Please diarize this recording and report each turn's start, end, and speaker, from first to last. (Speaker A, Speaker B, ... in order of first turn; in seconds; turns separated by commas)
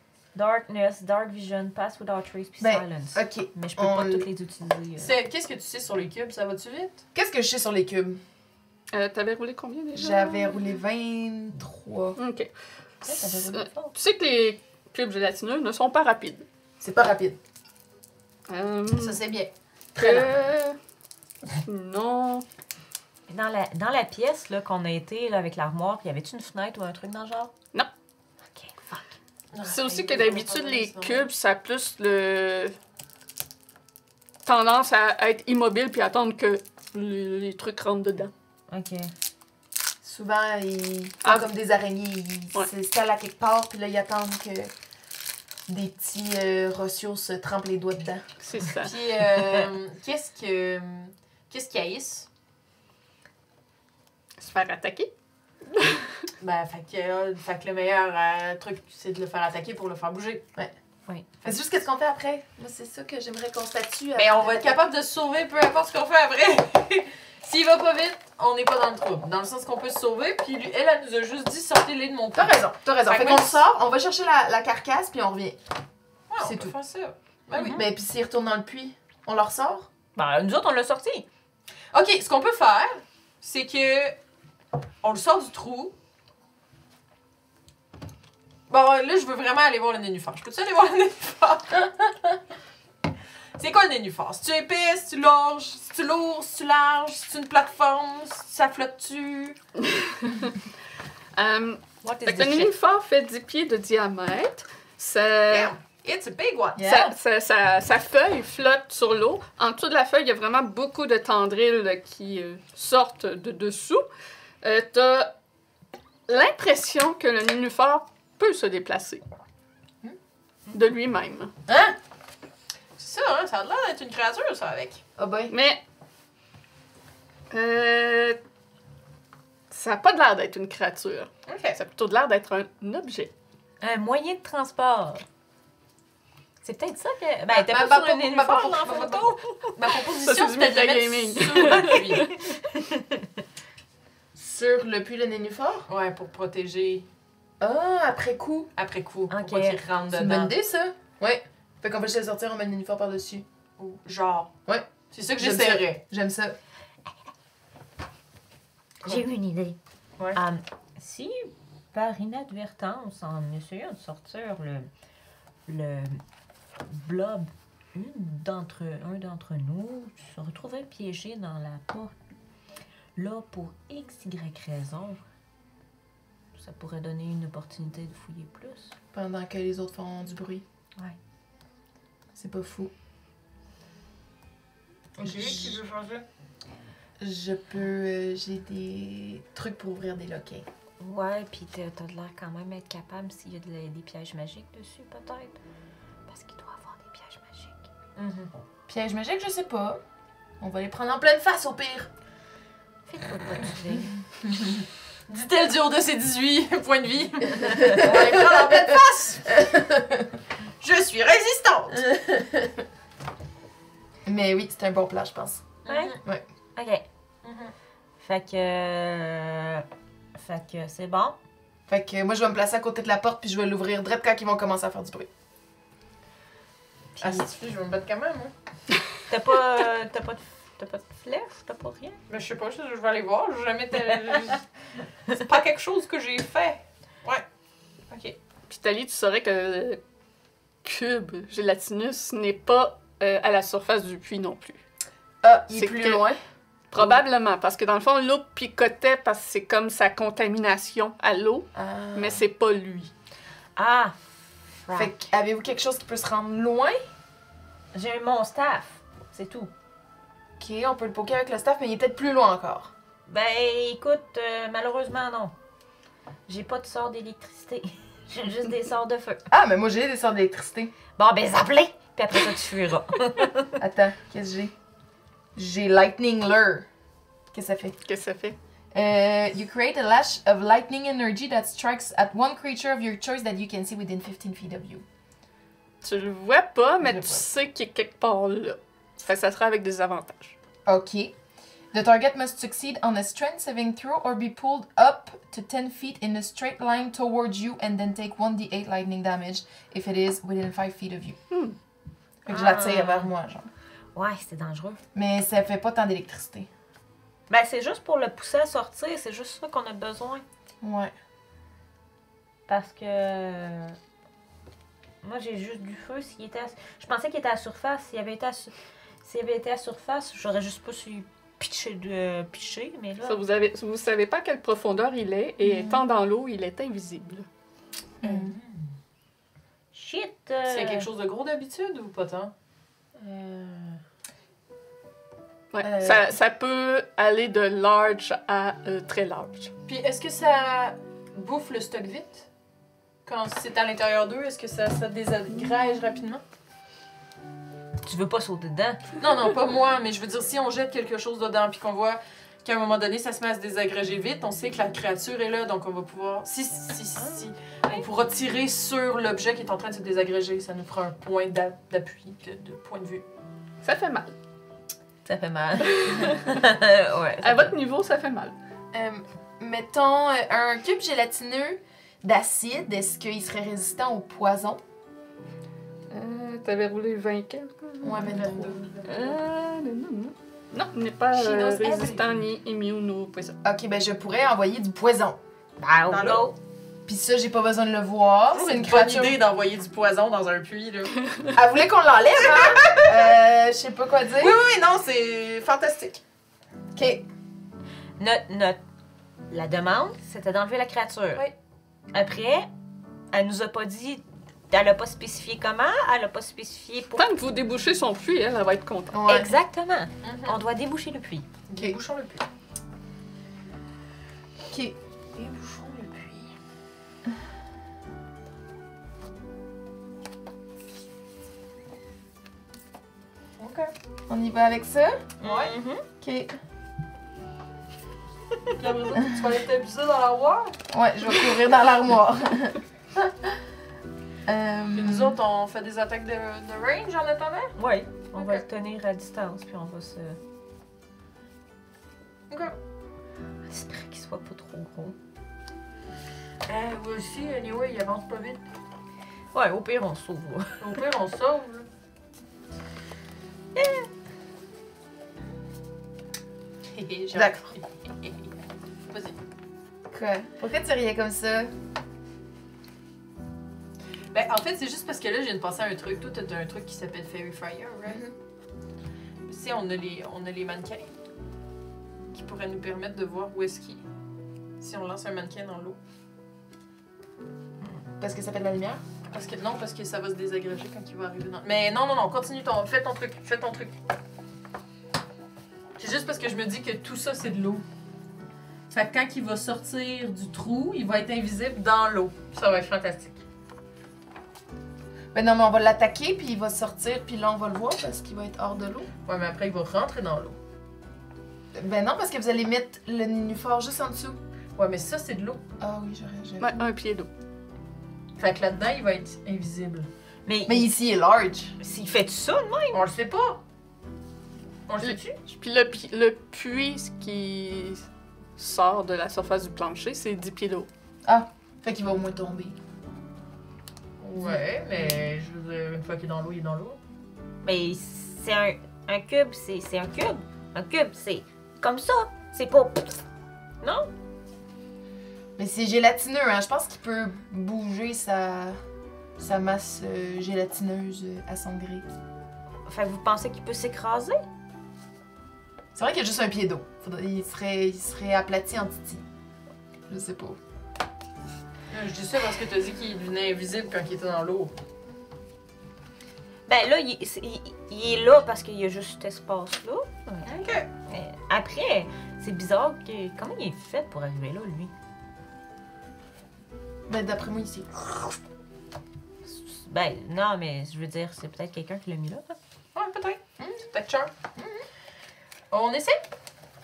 Speaker A: 0.3-5.2, Speaker B: 2.6-4.3, Speaker C: 5.0-7.0, Speaker B: 7.1-8.2, Speaker D: 8.9-10.7, Speaker B: 9.9-12.2, Speaker D: 12.2-12.5, Speaker B: 13.0-13.7, Speaker D: 13.1-16.5, Speaker B: 16.8-17.4, Speaker D: 18.5-19.2, Speaker C: 19.0-19.5, Speaker D: 19.9-20.8, Speaker B: 20.0-20.3, Speaker D: 21.5-22.4, Speaker A: 23.3-27.5, Speaker A: 28.4-29.1, Speaker C: 29.5-31.3, Speaker D: 29.6-32.8, Speaker D: 34.5-38.3, Speaker A: 38.7-39.1, Speaker B: 40.0-44.7, Speaker B: 45.7-48.2, Speaker D: 48.4-48.9, Speaker C: 48.8-52.3, Speaker D: 54.4-55.1, Speaker D: 55.7-56.3, Speaker C: 56.4-60.5, Speaker C: 61.4-61.7, Speaker B: 61.4-64.8, Speaker C: 64.2-73.6, Speaker B: 72.3-75.6, Speaker C: 76.3-77.8, Speaker B: 76.4-76.7, Speaker A: 77.5-77.8, Speaker B: 77.5-79.9, Speaker A: 80.1-81.2, Speaker C: 81.9-84.2, Speaker C: 85.0-85.9, Speaker C: 88.7-92.1, Speaker C: 93.6-99.6, Speaker D: 99.8-100.6, Speaker D: 101.3-105.7, Speaker A: 102.0-102.7, Speaker C: 105.5-106.8, Speaker B: 106.8-107.1, Speaker D: 106.8-114.0, Speaker D: 114.6-115.3, Speaker D: 116.3-119.2, Speaker D: 120.7-121.5, Speaker B: 121.7-121.9, Speaker C: 123.0-125.0, Speaker B: 125.2-125.5, Speaker D: 125.5-125.8, Speaker D: 127.5-128.4, Speaker D: 129.7-133.3, Speaker C: 131.5-131.8, Speaker A: 133.8-135.2, Speaker A: 136.6-139.4, Speaker C: 137.7-142.3, Speaker B: 137.7-138.8, Speaker D: 139.9-142.5, Speaker A: 141.8-143.3, Speaker B: 144.3-145.9, Speaker C: 145.9-147.1, Speaker B: 147.6-148.7, Speaker C: 148.8-150.6, Speaker A: 149.3-149.8, Speaker B: 150.1-153.4, Speaker C: 153.8-154.5, Speaker B: 154.7-156.6, Speaker C: 155.1-156.0, Speaker A: 159.0-159.8, Speaker A: 160.3-164.9, Speaker A: 165.7-166.2, Speaker A: 166.8-172.2, Speaker A: 173.2-175.2, Speaker A: 176.5-178.9, Speaker B: 179.1-180.6, Speaker B: 182.3-182.9, Speaker C: 185.2-186.2, Speaker B: 185.2-185.8, Speaker B: 187.2-190.7, Speaker A: 191.0-195.6, Speaker A: 196.3-197.9, Speaker C: 198.2-198.5, Speaker B: 198.9-200.0, Speaker B: 200.6-202.1, Speaker A: 203.1-204.2, Speaker C: 205.3-209.5, Speaker B: 207.7-210.4, Speaker A: 207.8-208.0, Speaker C: 210.8-212.2, Speaker B: 214.2-215.7, Speaker C: 215.8-216.2, Speaker A: 215.9-216.2, Speaker A: 216.8-217.1, Speaker C: 217.4-217.7, Speaker A: 218.2-221.4, Speaker B: 221.9-225.3, Speaker A: 227.2-227.5, Speaker C: 227.2-228.5, Speaker A: 229.3-232.2, Speaker C: 232.3-234.6, Speaker C: 235.3-237.4, Speaker C: 238.1-238.4, Speaker D: 238.7-240.0, Speaker D: 240.8-244.8, Speaker B: 245.4-246.4, Speaker D: 245.7-246.2, Speaker D: 246.9-253.1, Speaker B: 251.7-252.4, Speaker A: 253.8-254.2, Speaker A: 254.8-255.1, Speaker B: 254.9-257.0, Speaker A: 257.9-259.7, Speaker B: 260.6-262.9, Speaker A: 263.3-265.5, Speaker A: 266.5-269.4, Speaker B: 269.5-270.9, Speaker A: 271.1-273.8, Speaker B: 273.8-274.7, Speaker B: 275.6-276.9, Speaker B: 277.5-277.9, Speaker D: 278.0-278.6, Speaker B: 278.9-285.0, Speaker D: 286.0-290.6, Speaker B: 287.0-287.5, Speaker B: 290.9-291.3, Speaker B: 291.9-301.4, Speaker D: 301.5-301.8, Speaker B: 302.4-303.7, Speaker A: 302.5-303.3, Speaker A: 304.1-305.0, Speaker B: 305.1-306.7, Speaker A: 307.5-310.4, Speaker B: 310.8-311.1, Speaker A: 312.7-314.0, Speaker A: 315.2-323.4, Speaker D: 323.2-327.5, Speaker B: 328.2-328.5, Speaker C: 328.2-328.9, Speaker A: 329.9-331.1, Speaker C: 330.7-332.5, Speaker C: 333.1-334.0, Speaker D: 335.7-339.7, Speaker B: 335.8-336.3, Speaker C: 339.9-342.5, Speaker C: 343.2-346.4, Speaker A: 348.0-349.2, Speaker C: 349.2-363.2, Speaker D: 363.8-364.3, Speaker A: 365.2-367.7, Speaker D: 365.9-366.6, Speaker D: 367.4-368.5, Speaker B: 368.9-374.8, Speaker D: 376.1-378.4, Speaker B: 378.0-378.8, Speaker C: 378.1-379.4, Speaker D: 379.1-383.6, Speaker C: 381.4-382.2, Speaker B: 383.6-385.4, Speaker A: 385.8-386.6, Speaker C: 386.1-386.4, Speaker B: 387.1-389.4, Speaker C: 388.5-391.2, Speaker B: 391.5-394.6, Speaker C: 392.4-393.1, Speaker C: 394.4-396.2, Speaker B: 396.9-397.3, Speaker A: 398.2-398.8, Speaker A: 399.5-401.5, Speaker A: 402.1-402.7, Speaker A: 403.3-407.3, Speaker D: 407.1-409.2, Speaker B: 409.1-409.6, Speaker A: 409.3-411.5, Speaker C: 410.2-410.6, Speaker C: 411.7-412.4, Speaker B: 414.7-414.9, Speaker C: 415.3-416.5, Speaker C: 423.6-423.9, Speaker B: 424.3-425.3, Speaker A: 425.4-426.0, Speaker C: 425.4-425.7, Speaker B: 426.2-426.6, Speaker C: 428.8-430.8, Speaker B: 430.9-432.8, Speaker B: 434.4-435.4, Speaker C: 434.9-437.7, Speaker A: 437.8-440.4, Speaker C: 438.3-438.6, Speaker C: 442.5-442.8, Speaker A: 443.6-445.2, Speaker C: 446.7-448.6, Speaker A: 449.5-450.9, Speaker C: 450.8-451.9, Speaker A: 453.7-454.1, Speaker C: 456.9-458.5, Speaker B: 457.3-457.7, Speaker C: 459.1-459.4, Speaker B: 460.1-461.7, Speaker C: 464.3-468.2, Speaker B: 468.1-468.3, Speaker C: 469.4-471.1, Speaker C: 472.3-474.0, Speaker C: 474.8-476.0, Speaker B: 478.2-479.0, Speaker C: 479.3-483.9, Speaker C: 486.0-487.8, Speaker C: 488.9-493.4, Speaker B: 495.3-499.1, Speaker C: 499.2-500.6, Speaker B: 501.7-504.4, Speaker C: 504.8-505.6, Speaker B: 505.8-506.9, Speaker D: 506.6-507.3, Speaker C: 508.4-510.1, Speaker A: 510.4-510.9, Speaker B: 510.7-511.8, Speaker A: 511.8-513.0, Speaker C: 512.9-513.6, Speaker C: 514.9-515.4, Speaker D: 515.0-518.0, Speaker D: 518.6-520.9, Speaker B: 521.2-522.8, Speaker C: 524.2-527.0, Speaker B: 524.4-525.2, Speaker A: 527.6-533.2, Speaker A: 533.8-534.1, Speaker B: 535.6-538.8, Speaker B: 539.4-542.1, Speaker A: 542.9-544.4, Speaker B: 545.9-549.2, Speaker B: 550.1-550.6, Speaker C: 551.9-554.7, Speaker A: 556.7-564.9, Speaker C: 560.5-560.9, Speaker B: 567.1-568.4, Speaker A: 569.4-572.6, Speaker C: 572.9-574.3, Speaker B: 574.5-574.8, Speaker C: 575.7-576.2